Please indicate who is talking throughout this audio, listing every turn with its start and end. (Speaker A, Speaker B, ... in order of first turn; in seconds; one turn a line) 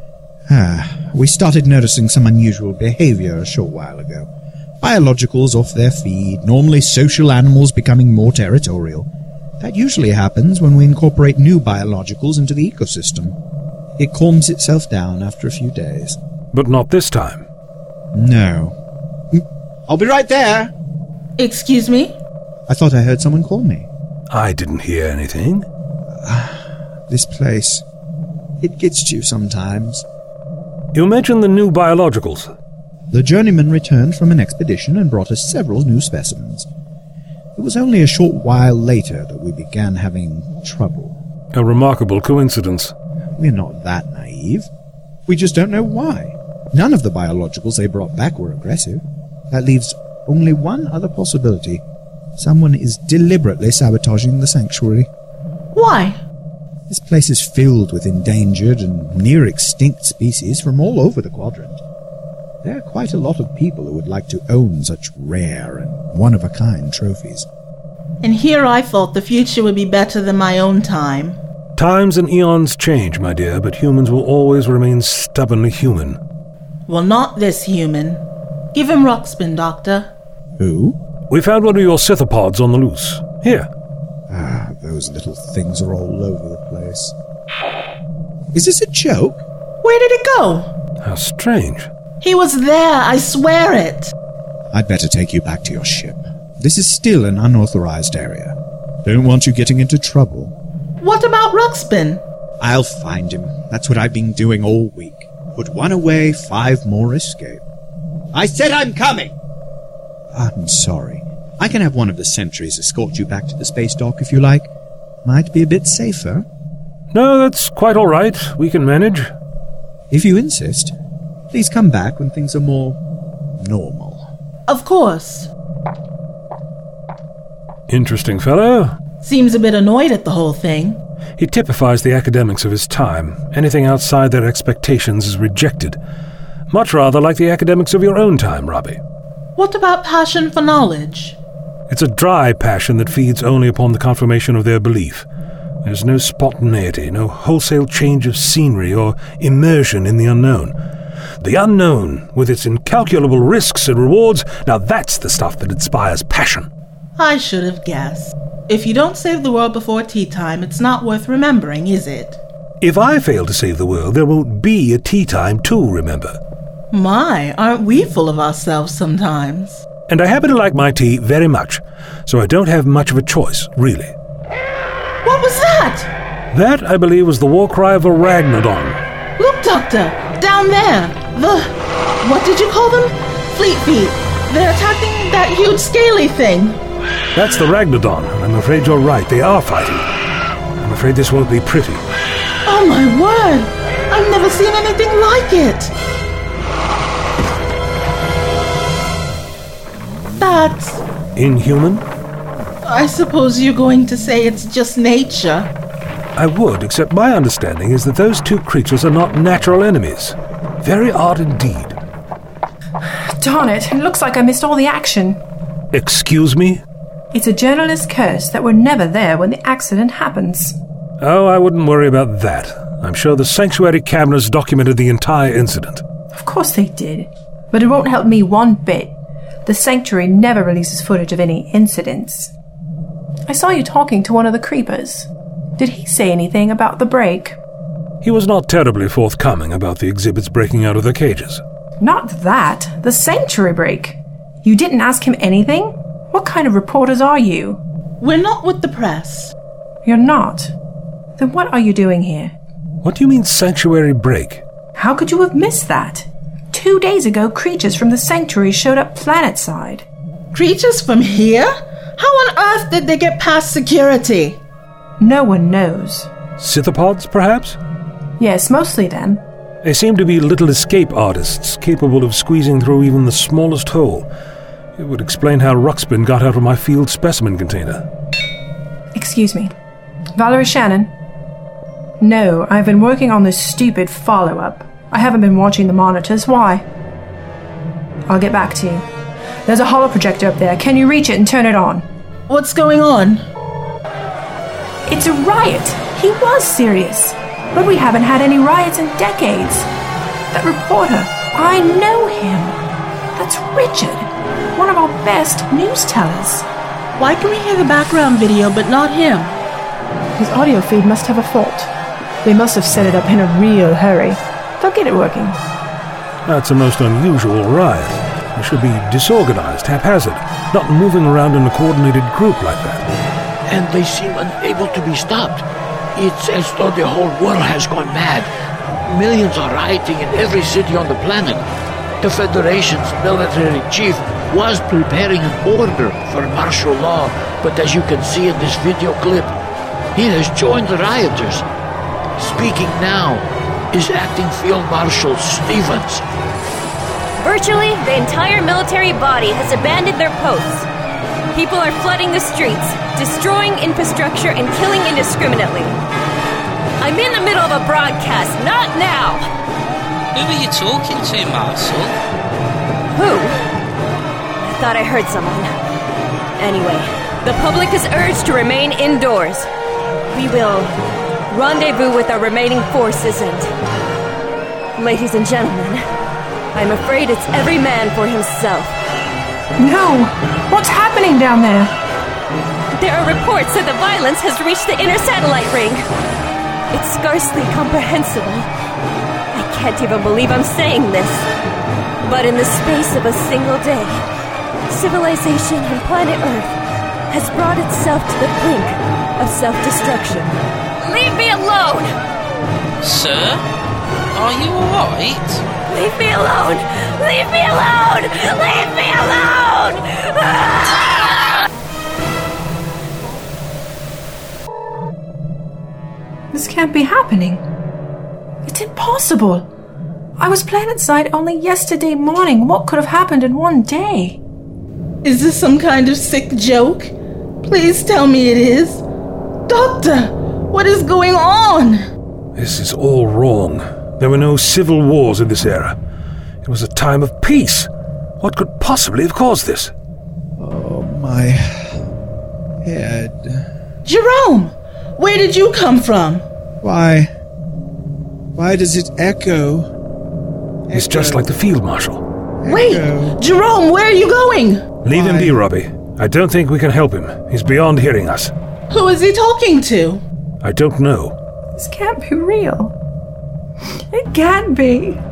Speaker A: 0.5-4.3
Speaker A: 4.8-9.1
Speaker A: 9.6-13.4
Speaker A: 14.0-16.2
Speaker B: 16.5-17.5
Speaker A: 18.1-18.7
Speaker A: 19.3-20.7
Speaker C: 21.4-22.2
Speaker A: 22.7-23.9
Speaker B: 24.3-25.6
Speaker A: 26.2-27.8
Speaker A: 28.6-30.0
Speaker B: 30.9-32.5
Speaker A: 33.1-36.7
Speaker A: 37.5-41.2
Speaker B: 41.5-42.9
Speaker A: 43.4-44.7
Speaker A: 45.3-51.8
Speaker A: 52.4-55.1
Speaker C: 55.7-56.2
Speaker A: 56.9-61.8
Speaker A: 62.6-67.5
Speaker C: 68.2-71.4
Speaker B: 71.8-76.2
Speaker C: 76.9-80.1
Speaker A: 80.6-81.0
Speaker B: 81.3-83.7
Speaker A: 84.3-87.1
Speaker A: 88.5-89.4
Speaker C: 89.8-90.7
Speaker B: 91.0-91.9
Speaker C: 92.2-94.1
Speaker A: 94.7-100.5
Speaker C: 101.0-102.2
Speaker A: 102.6-107.6
Speaker A: 108.3-109.3
Speaker A: 110.3-114.7
Speaker A: 115.2-116.5
Speaker B: 117.1-119.3
Speaker A: 120.1-120.9
Speaker A: 121.5-123.0
Speaker A: 123.6-124.2
Speaker C: 124.7-125.5
Speaker B: 127.9-128.9
Speaker C: 129.2-131.0
Speaker B: 131.4-136.0
Speaker B: 136.7-139.0
Speaker C: 139.6-141.4
Speaker B: 141.9-145.2
Speaker B: 145.8-150.7
Speaker B: 151.4-156.7
Speaker C: 157.2-162.4
Speaker B: 162.8-166.4
Speaker C: 166.9-169.8
Speaker B: 170.1-174.1
Speaker C: 175.2-176.1
Speaker B: 176.5-179.0
Speaker C: 179.4-186.8
Speaker B: 187.3-190.1
Speaker B: 190.8-192.0
Speaker C: 192.7-195.9
Speaker C: 200.4-201.0
Speaker B: 201.3-202.0
Speaker C: 202.8-205.7
Speaker B: 206.3-211.9
Speaker D: 213.4-215.4
Speaker B: 215.9-216.8
Speaker D: 217.3-220.8
Speaker B: 221.2-226.0
Speaker D: 226.3-229.1
Speaker D: 229.7-232.5
Speaker D: 233.5-237.6
Speaker B: 238.2-241.6
Speaker D: 242.0-247.8
Speaker C: 248.2-249.5
Speaker D: 250.0-250.7
Speaker D: 251.4-252.5
Speaker B: 253.0-254.6
Speaker D: 254.9-260.0
Speaker C: 260.5-264.6
Speaker D: 265.2-266.3
Speaker B: 266.6-267.8
Speaker D: 268.4-269.4
Speaker B: 269.8-274.3
Speaker B: 275.0-278.1
Speaker D: 279.1-279.7
Speaker D: 280.3-281.1
Speaker D: 282.2-286.8
Speaker D: 288.3-289.0
Speaker D: 289.6-292.0
Speaker C: 292.5-293.4
Speaker D: 295.1-299.9
Speaker D: 300.5-302.8
Speaker D: 303.3-306.6
Speaker C: 307.2-309.6
Speaker D: 310.4-311.9
Speaker D: 312.4-315.6
Speaker B: 316.4-323.1
Speaker E: 323.7-325.6
Speaker E: 326.1-328.5
Speaker E: 329.1-331.6
Speaker E: 332.2-339.5
Speaker E: 340.1-341.6
Speaker E: 342.4-346.2
Speaker F: 347.4-350.9
Speaker F: 351.5-356.0
Speaker F: 357.0-359.4
Speaker G: 360.3-362.1
Speaker F: 363.1-363.6
Speaker F: 364.6-365.7
Speaker F: 366.6-369.7
Speaker F: 370.3-370.9
Speaker F: 371.5-373.7
Speaker F: 375.0-376.0
Speaker F: 376.7-378.9
Speaker D: 379.8-381.9
Speaker F: 382.9-386.1
Speaker F: 386.9-388.7
Speaker F: 389.5-391.5
Speaker F: 392.2-394.2
Speaker F: 394.9-396.8
Speaker F: 397.3-402.1
Speaker G: 403.0-403.6
Speaker G: 404.3-405.6
Speaker F: 405.9-411.6
Speaker D: 416.5-417.6
Speaker D: 418.6-419.7
Speaker D: 420.4-424.4
Speaker C: 425.2-429.0
Speaker C: 429.7-432.0
Speaker B: 432.6-435.9
Speaker B: 436.6-437.9
Speaker B: 438.4-439.9
Speaker A: 440.6-442.0
Speaker A: 442.8-443.7
Speaker C: 444.0-446.4
Speaker A: 446.8-447.3
Speaker A: 448.5-449.9
Speaker A: 450.9-451.4
Speaker B: 450.9-452.2
Speaker A: 452.6-453.4
Speaker C: 452.6-454.9
Speaker B: 455.0-458.5
Speaker A: 455.1-455.6
Speaker C: 458.9-460.2
Speaker B: 460.6-461.4
Speaker D: 461.7-462.9
Speaker D: 464.0-465.2